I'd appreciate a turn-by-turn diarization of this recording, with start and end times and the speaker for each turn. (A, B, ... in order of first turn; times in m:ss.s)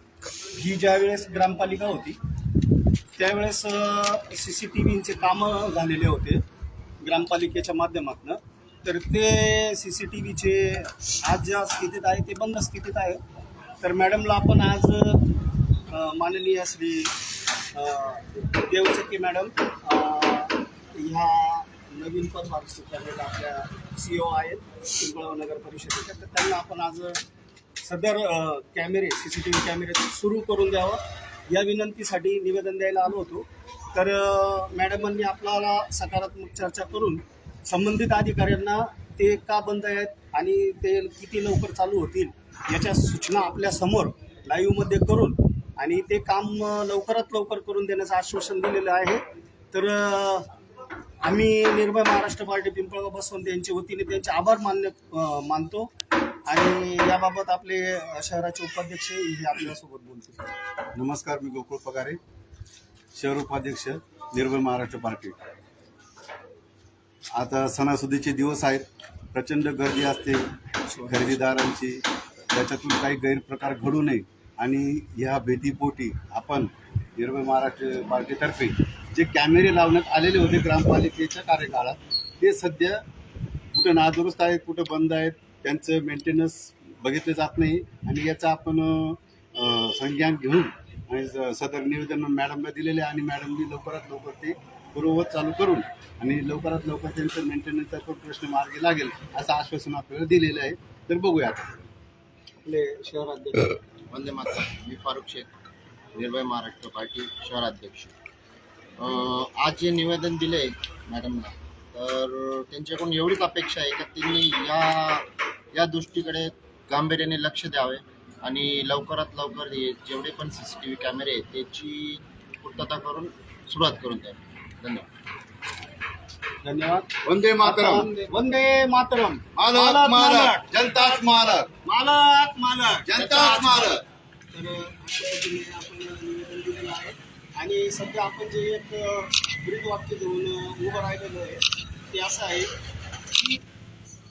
0:00.5-0:02.2 A
0:03.2-0:06.4 A
0:07.0-0:13.2 A
0:13.8-0:15.2 A
0:15.9-0:17.1 A
0:17.7-0:27.2 A
0:27.8-0:50.5 A
0:51.2-0:55.9 A
0:56.5-1:00.5 A
1:01.0-1:02.2 B
1:03.2-1:05.4 B
1:07.3-1:10.5 B
1:10.9-1:11.5 A
1:11.1-1:23.0 B
1:23.7-1:41.9 B
1:42.6-1:43.8 A
1:44.1-1:45.5 C
1:46.2-1:48.1 C
1:49.0-2:05.1 C
2:06.6-2:07.1 A
2:07.2-2:08.3 B
2:07.6-2:14.0 A
2:09.6-2:11.7 B
2:13.1-2:14.0 B
2:13.1-2:13.9 C
2:14.5-2:22.7 A